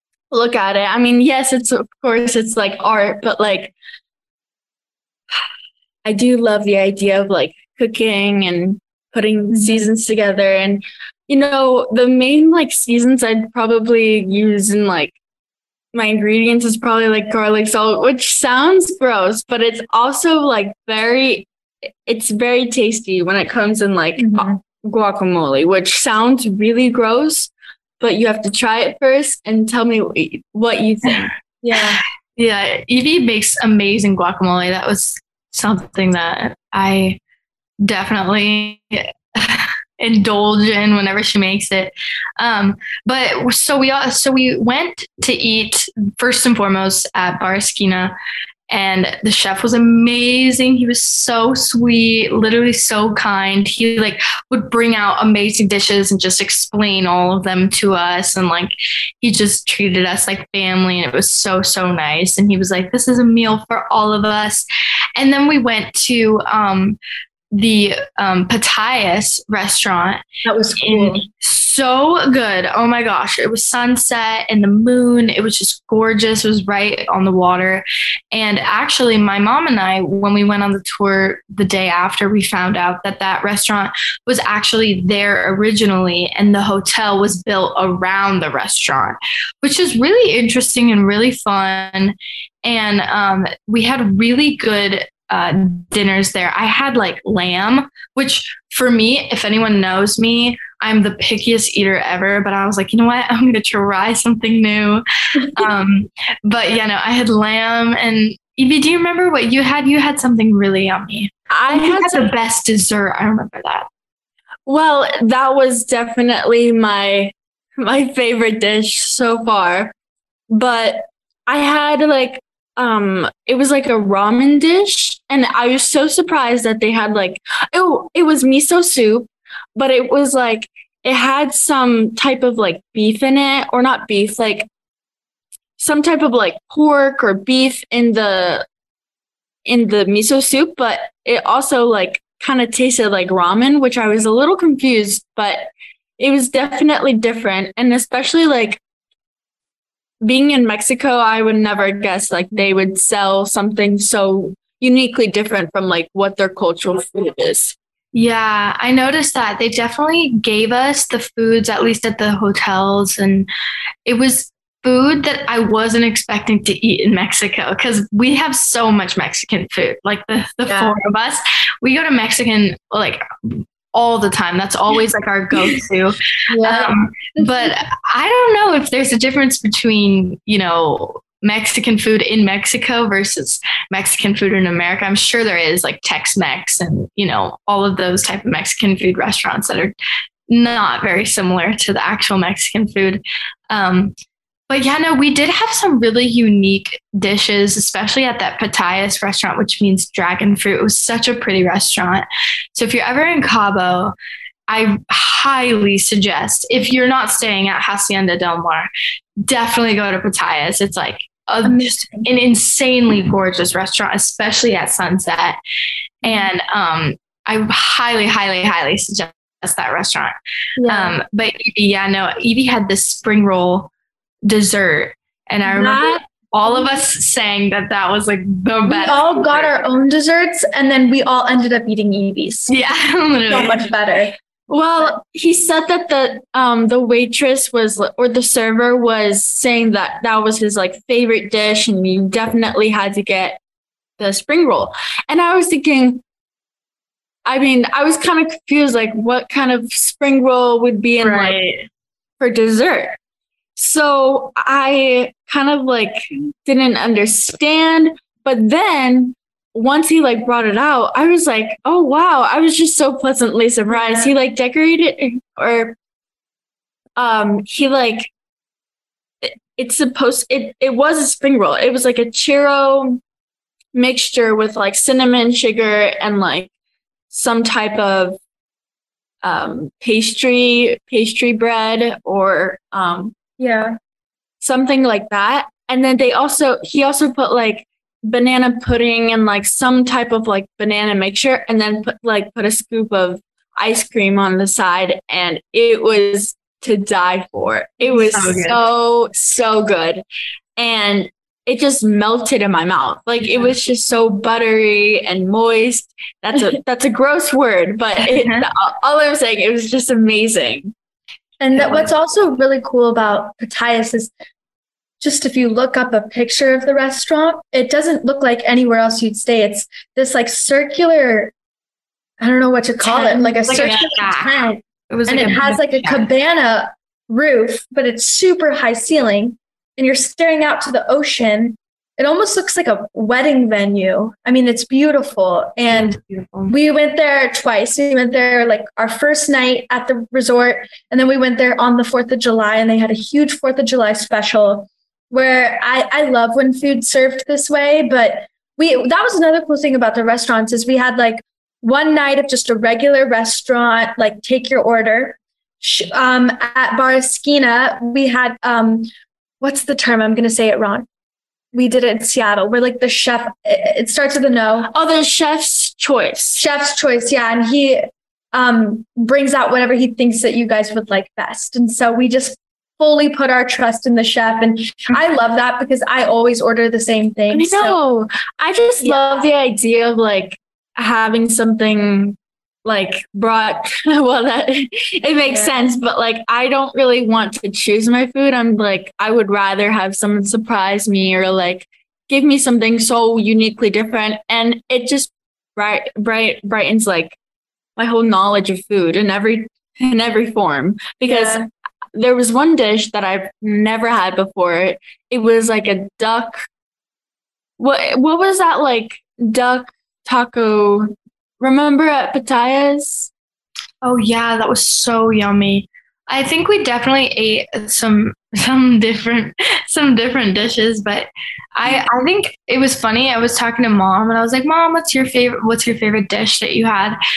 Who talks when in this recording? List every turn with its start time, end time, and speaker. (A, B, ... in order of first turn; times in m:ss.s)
0:00.3-0:03.7 A
0:06.0-0:15.2 A
0:09.5-0:09.9 B
0:15.9-0:21.5 A
0:22.1-0:31.3 A
0:24.2-0:24.6 B
0:31.6-0:32.0 B
0:32.4-0:37.2 C
0:37.8-0:48.1 C
0:48.7-1:04.7 C
1:05.2-1:07.0 C
1:07.5-1:10.2 C
1:10.4-1:11.2 B
1:10.8-1:45.0 C
1:45.6-1:53.9 C
1:51.5-1:52.2 A
1:54.7-1:59.9 A
2:00.5-2:14.7 A
2:15.8-2:18.7 A
2:19.7-2:28.8 A
2:30.2-2:37.8 A
2:38.1-2:43.5 C
2:44.0-3:10.0 C
2:50.7-2:51.0 B
2:56.5-2:57.8 B
3:10.5-3:14.2 C
3:14.7-3:24.2 C
3:24.7-3:28.9 C
3:29.4-3:35.6 C
3:31.6-3:32.3 B
3:36.2-3:40.4 C
3:36.2-3:36.5 B
3:40.8-3:41.2 B
3:40.9-3:43.9 C
3:44.4-3:49.8 C
3:45.7-3:46.1 B
3:45.7-3:46.1 A
3:48.9-3:52.7 B
3:52.7-3:53.9 C
3:53.5-3:54.4 B
3:54.7-4:03.6 A
4:04.2-4:06.2 A
4:07.4-4:11.6 A
4:11.2-4:11.8 C
4:12.4-4:13.2 A
4:13.8-4:26.0 A
4:27.2-4:28.3 A
4:29.4-4:33.2 A
4:33.9-4:36.7 A
4:37.3-4:38.4 A
4:39.4-4:43.4 A
4:43.6-4:44.0 B
4:44.6-5:00.2 A
4:58.2-4:58.8 C
5:00.8-5:10.9 A
5:08.2-5:08.6 C
5:11.6-5:14.3 B
5:11.8-5:12.1 C
5:15.2-5:21.5 B
5:22.4-5:36.2 B
5:23.1-5:26.3 C
5:35.9-5:36.7 C
5:36.7-5:59.1 B
5:59.6-6:01.1 B
6:01.7-6:04.9 B
6:04.9-6:06.6 A
6:06.6-6:18.0 B
6:17.5-6:37.4 A
6:19.0-6:19.4 B
6:25.5-6:25.8 B
6:38.0-6:46.7 A
6:41.3-6:41.7 B
6:47.8-6:53.3 A
6:54.0-7:07.2 C